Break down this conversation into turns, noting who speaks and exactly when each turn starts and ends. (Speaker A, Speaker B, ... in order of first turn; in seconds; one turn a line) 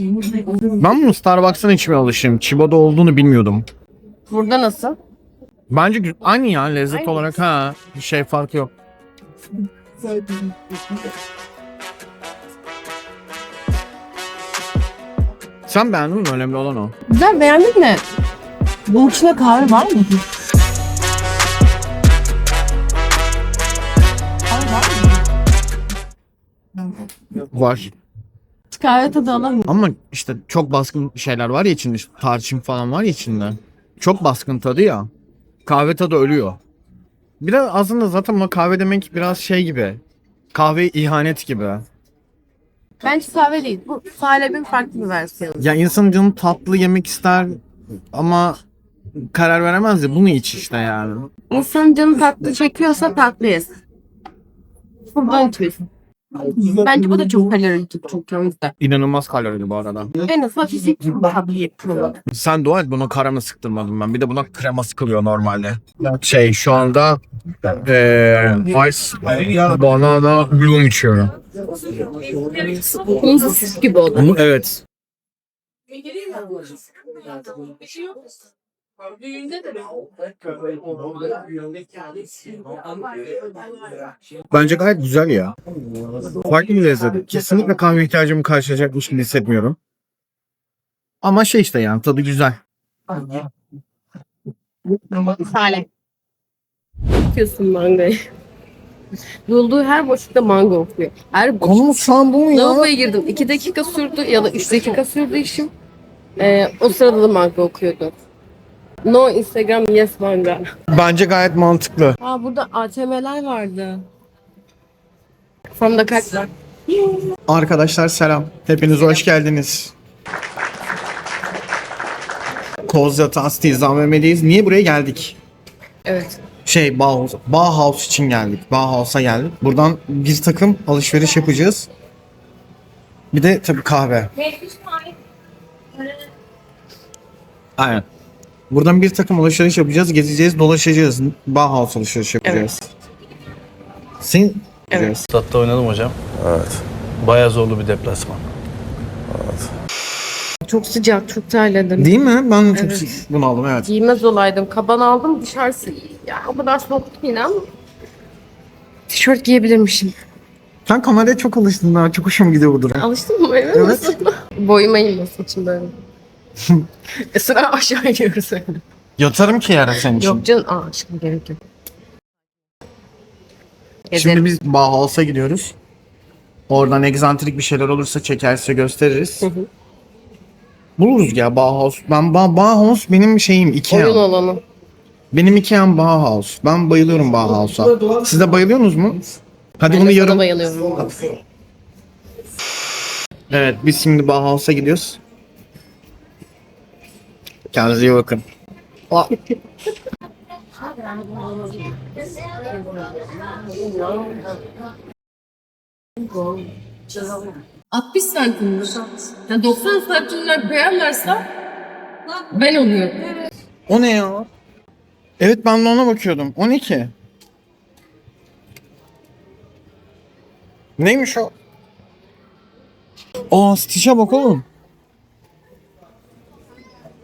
Speaker A: 0.2-0.7
Speaker B: 0.8-3.7
Speaker A: 4.3-5.0
Speaker B: 5.7-8.7
Speaker A: 6.9-7.2
Speaker B: 15.7-16.9
Speaker A: 17.1-18.0
Speaker A: 18.9-20.2
Speaker A: 24.5-25.2
Speaker B: 27.4-27.9
Speaker A: 28.7-29.7
Speaker B: 29.6-35.1
Speaker B: 35.6-36.6
Speaker B: 37.4-40.0
Speaker B: 40.5-41.8
Speaker A: 43.0-45.7
Speaker B: 45.6-47.6
Speaker B: 48.1-48.6
Speaker B: 49.3-51.3
Speaker A: 51.5-53.7
Speaker A: 55.1-55.9
Speaker A: 56.4-58.7
Speaker B: 58.8-60.1
Speaker A: 60.2-62.2
Speaker B: 62.3-71.3
Speaker A: 72.4-74.2
Speaker B: 74.1-74.8
Speaker B: 84.5-85.5
Speaker B: 86.3-89.8
Speaker B: 91.2-92.6
Speaker A: 95.1-95.8
Speaker A: 97.3-98.2
Speaker A: 99.5-101.8
Speaker B: 101.6-102.9
Speaker A: 102.5-105.7
Speaker A: 106.4-108.1
Speaker A: 109.0-110.7
Speaker B: 110.9-112.2
Speaker A: 112.2-114.0
Speaker A: 115.8-117.1
Speaker B: 117.5-119.9
Speaker B: 122.8-125.4
Speaker A: 126.0-126.4
Speaker B: 126.6-131.9
Speaker B: 133.3-134.3
Speaker B: 137.8-138.1
Speaker B: 138.7-142.9
Speaker A: 142.4-142.7
Speaker B: 144.2-145.2
Speaker C: 145.3-146.2
Speaker C: 147.2-148.3
Speaker A: 150.6-152.1
Speaker B: 152.0-153.9
Speaker A: 152.7-153.1
Speaker A: 153.8-157.7
Speaker A: 159.1-160.1
Speaker B: 160.8-163.1
Speaker A: 163.0-165.9
Speaker B: 163.7-164.2
Speaker A: 167.1-168.8
Speaker B: 169.2-170.4
Speaker A: 170.1-171.6
Speaker A: 174.1-174.4
Speaker B: 174.1-175.7
Speaker B: 176.7-179.5
Speaker A: 179.4-179.7
Speaker B: 181.0-184.2
Speaker A: 183.9-184.6
Speaker B: 185.3-189.2
Speaker B: 189.8-190.5
Speaker A: 189.9-191.2
Speaker B: 193.5-195.2
Speaker B: 197.7-198.4
Speaker A: 201.1-201.8
Speaker A: 203.4-204.4
Speaker A: 206.3-206.7
Speaker A: 207.2-211.5
Speaker A: 212.5-213.4
Speaker B: 213.9-214.5
Speaker B: 215.4-217.1
Speaker B: 221.0-221.5
Speaker B: 223.5-224.6